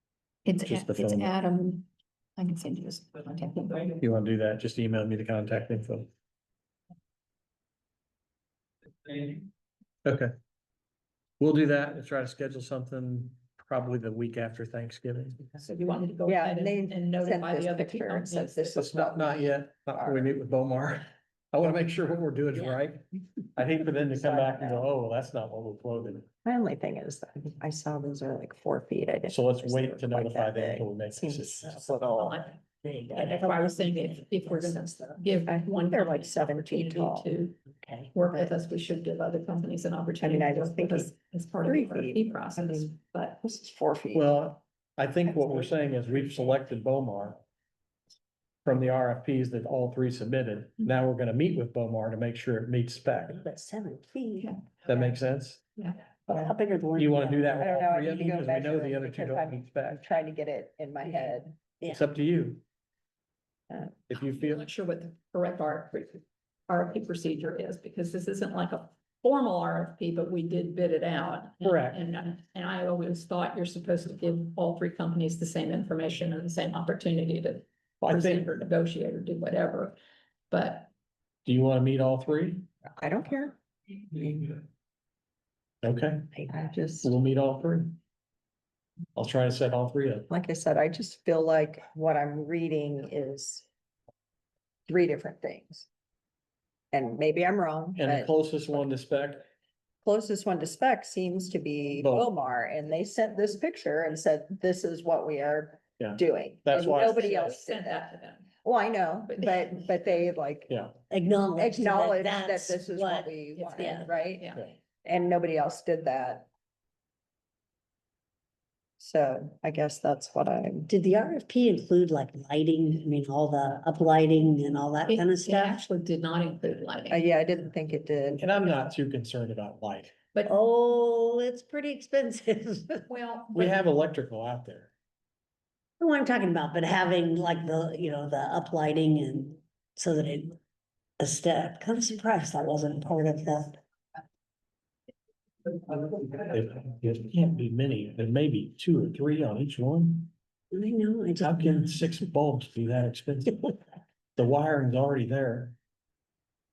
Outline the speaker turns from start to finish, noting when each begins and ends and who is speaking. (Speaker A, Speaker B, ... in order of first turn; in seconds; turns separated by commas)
Speaker A: 0.4-4.0, Speaker B: 0.6-1.3, Speaker B: 4.0-6.1, Speaker B: 10.0-10.3, Speaker B: 11.4-15.5, Speaker A: 15.6-18.8, Speaker C: 16.2-20.3, Speaker B: 18.7-26.3, Speaker C: 24.1-24.9, Speaker C: 26.4-32.5, Speaker B: 29.3-31.9, Speaker A: 32.1-32.6, Speaker D: 32.8-34.7, Speaker A: 33.1-37.6, Speaker C: 35.5-37.3, Speaker D: 37.8-38.1, Speaker A: 38.1-43.4, Speaker C: 40.2-41.1, Speaker C: 41.6-44.3, Speaker B: 44.1-47.4, Speaker B: 48.6-53.4, Speaker D: 53.3-54.5, Speaker A: 54.4-54.7, Speaker B: 54.8-55.6, Speaker D: 56.3-57.9, Speaker C: 56.3-56.5, Speaker B: 57.0-60.0, Speaker C: 57.5-61.6, Speaker B: 61.8-62.6, Speaker C: 63.7-64.0, Speaker B: 64.1-64.6, Speaker A: 64.2-80.0, Speaker B: 71.6-72.0, Speaker B: 78.0-78.5, Speaker A: 80.5-80.9, Speaker B: 81.5-82.7, Speaker C: 83.0-84.6, Speaker B: 85.8-86.4, Speaker C: 86.5-87.1, Speaker B: 87.0-88.0, Speaker B: 89.2-90.3, Speaker C: 90.3-93.7, Speaker C: 94.9-95.9, Speaker C: 96.9-98.3, Speaker B: 98.0-99.4, Speaker C: 100.0-108.0, Speaker B: 102.0-102.3, Speaker B: 106.0-107.5, Speaker A: 106.9-108.5, Speaker C: 108.6-110.7, Speaker A: 109.3-109.6, Speaker D: 111.1-114.1, Speaker C: 111.6-114.5, Speaker A: 113.6-114.6, Speaker C: 115.0-116.5, Speaker C: 119.0-120.9, Speaker D: 120.9-125.8, Speaker A: 125.1-127.2, Speaker C: 127.1-128.5, Speaker B: 128.4-130.2, Speaker D: 130.4-133.1, Speaker A: 133.1-133.8, Speaker B: 133.5-134.9, Speaker D: 136.0-140.6, Speaker D: 141.2-143.8, Speaker B: 145.9-150.3, Speaker D: 150.7-152.0, Speaker B: 151.4-153.8, Speaker B: 154.3-155.8